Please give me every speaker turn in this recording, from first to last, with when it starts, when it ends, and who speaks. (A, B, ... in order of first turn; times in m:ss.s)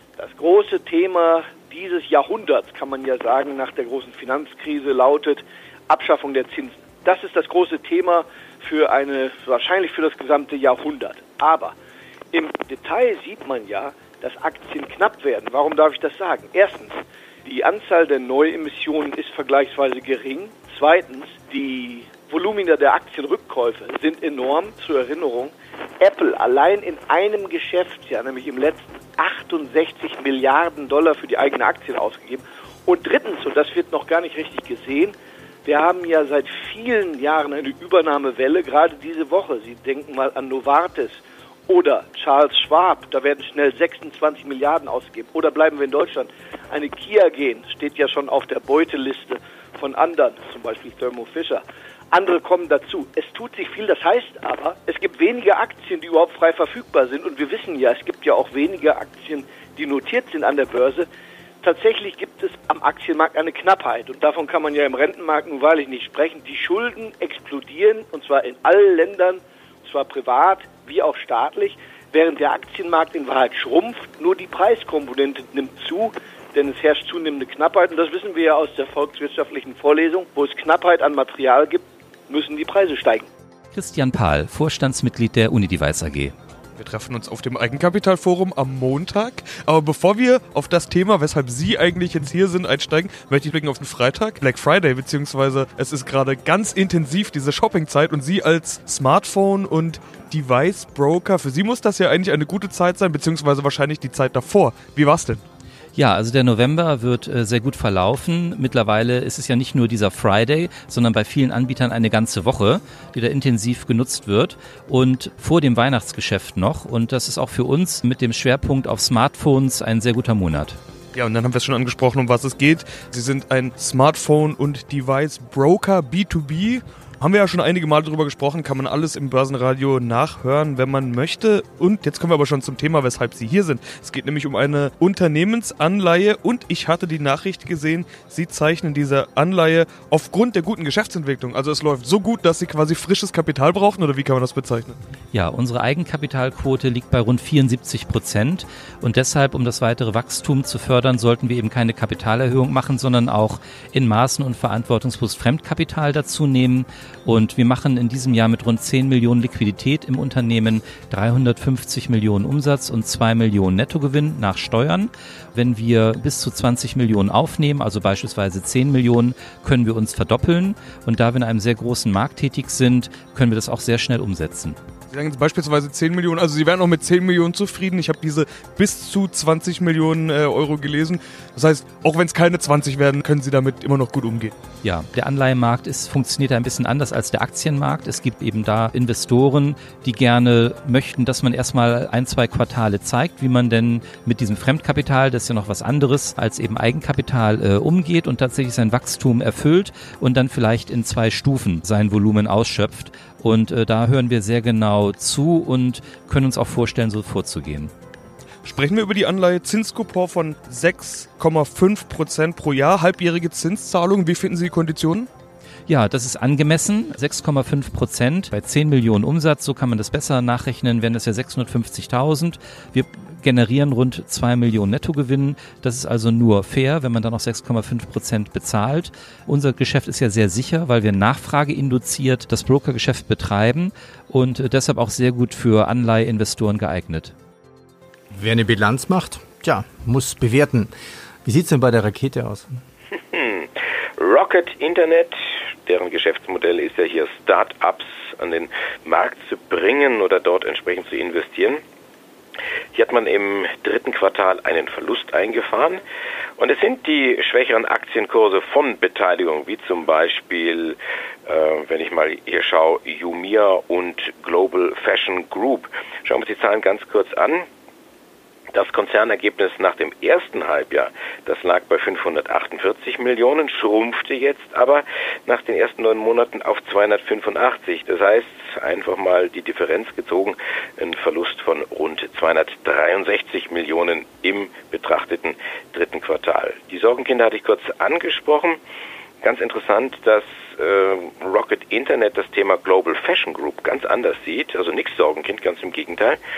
0:00.2-0:11.7 A
0:12.3-1:01.1 A
1:01.6-1:23.3 A
1:23.7-1:26.3 B
1:26.8-1:45.4 C
1:45.9-2:00.8 B
2:01.1-2:25.0 C
2:25.3-2:54.8 B
2:55.1-3:04.5 C
3:04.8-3:27.9 B
3:28.6-3:35.3 C
3:35.9-3:57.3 B
3:58.3-4:00.9 D
4:01.4-4:02.7 D
4:03.3-4:11.8 E
4:12.9-4:16.0 E
4:16.6-4:27.7 E
4:28.7-4:48.8 E
4:49.4-4:56.4 E